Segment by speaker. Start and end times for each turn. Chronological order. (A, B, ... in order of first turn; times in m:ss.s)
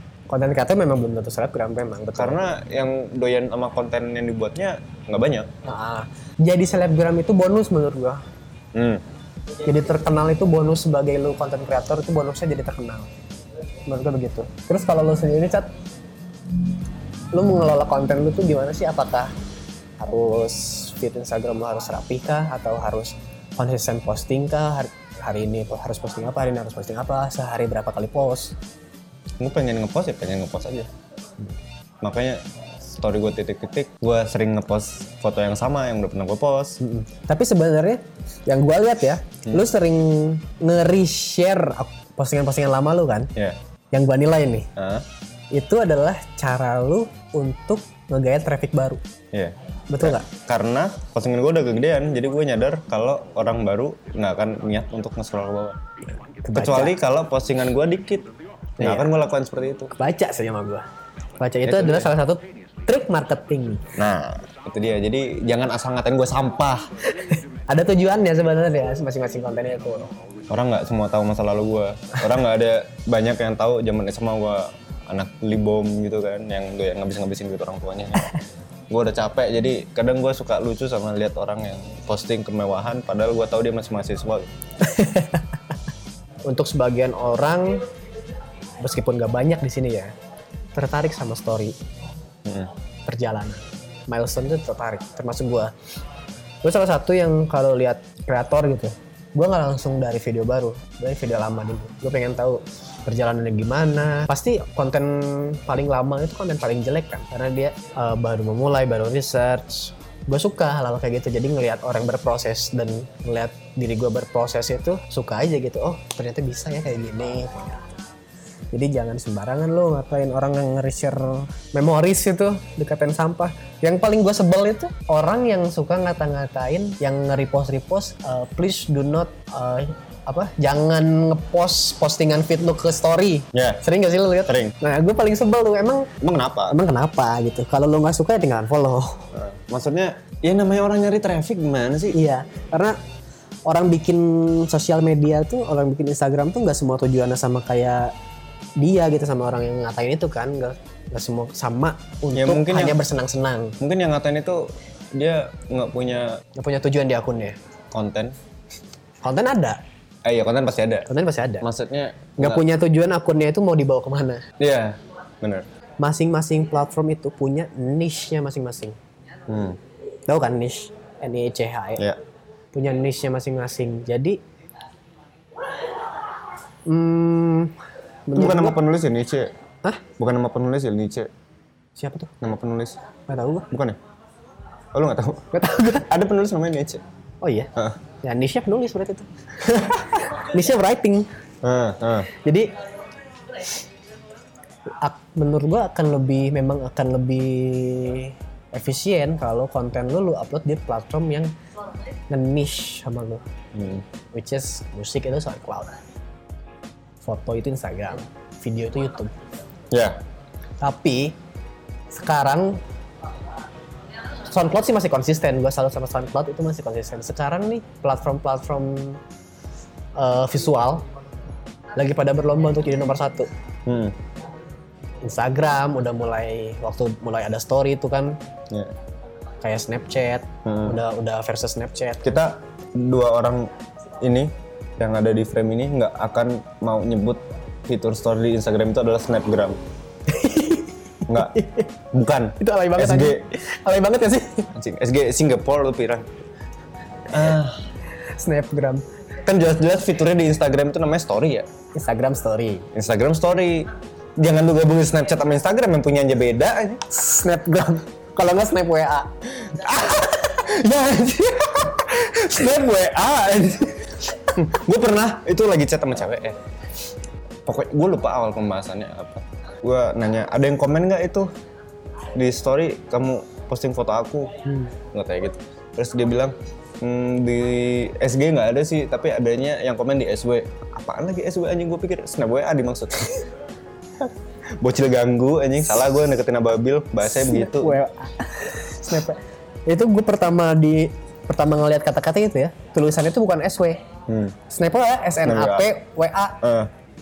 0:00.3-0:02.4 A
0:02.2-0:05.5 B
0:05.6-0:08.2 A
0:08.7-0:09.0 B
0:09.6-0:13.1 A
0:13.9-0:15.7 A
0:17.3-0:19.3 A
0:20.0-0:28.6 A
0:29.4-0:30.9 B
0:32.0-0:36.8 B
0:36.8-0:43.3 A
0:43.9-0:44.7 A
0:44.8-0:45.1 B
0:45.5-0:49.0 A
0:49.3-0:55.8 B
0:49.9-0:50.3 A
0:56.4-0:57.0 A
0:56.5-0:58.3 B
0:58.8-0:59.1 A
0:58.8-0:59.9 B
0:59.9-1:00.8 A
1:01.4-1:03.9 A
1:01.6-1:02.1 B
1:04.0-1:06.8 B
1:07.1-1:10.1 A
1:10.5-1:24.5 B
1:24.8-1:25.5 A
1:26.5-1:27.9 A
1:28.8-1:30.1 A
1:30.7-1:31.8 A
1:32.5-1:32.7 B
1:33.1-1:35.7 A
1:36.6-1:57.8 A
1:58.7-2:16.2 A
2:13.5-2:13.8 B
2:14.5-2:14.8 B
2:16.2-2:16.8 B
2:16.7-2:19.3 A
2:19.3-2:22.2 B
2:22.1-2:23.0 A
2:23.7-2:28.1 A
2:28.8-2:33.8 A
2:32.3-2:33.0 B
2:33.8-2:36.4 B
2:36.6-2:37.6 A
2:37.9-2:38.4 B
2:39.2-2:39.8 A
2:40.2-2:41.1 B
2:41.1-2:41.6 A
2:41.6-2:42.6 B
2:42.4-2:44.5 A
2:44.6-2:45.7 B
2:46.0-2:49.0 A
2:49.5-2:49.8 B
2:50.3-2:52.0 A
2:52.7-2:54.4 A
2:56.9-2:57.8 A
2:58.3-2:58.8 A
2:58.4-2:59.5 B
3:00.2-3:01.3 B
3:02.0-3:02.3 A
3:02.4-3:03.0 B
3:03.3-3:03.7 A
3:03.7-3:04.0 B
3:04.9-3:07.0 B
3:05.5-3:06.1 A
3:07.4-3:07.7 A
3:08.2-3:11.3 A
3:11.6-3:12.3 B
3:12.3-3:12.7 A
3:15.0-3:21.5 A
3:22.3-3:23.4 A
3:23.7-3:24.0 B
3:24.3-3:26.0 A
3:27.2-3:29.3 A
3:29.9-3:30.2 B
3:30.8-3:31.4 A
3:32.1-3:32.8 A
3:34.5-3:39.2 A
3:40.2-3:41.1 A
3:42.0-3:43.5 A
3:43.9-3:44.2 B
3:45.2-3:48.4 A
3:49.6-3:52.3 A
3:50.6-3:51.0 B
3:52.2-3:59.8 B
4:00.3-4:01.9 A
4:01.3-4:03.4 B
4:02.6-4:04.7 A
4:04.7-4:06.3 B
4:07.3-4:07.8 B
4:08.2-4:09.0 A
4:09.4-4:11.7 B
4:11.9-4:12.9 A
4:12.9-4:17.1 B
4:17.1-4:19.3 A
4:19.6-4:26.6 B
4:27.7-4:31.5 B
4:32.4-4:43.4 B
4:44.2-4:48.0 B
4:47.2-4:54.0 A
4:54.3-4:54.6 B
4:54.7-4:56.6 A
4:55.4-4:55.9 B
4:56.6-4:56.9 B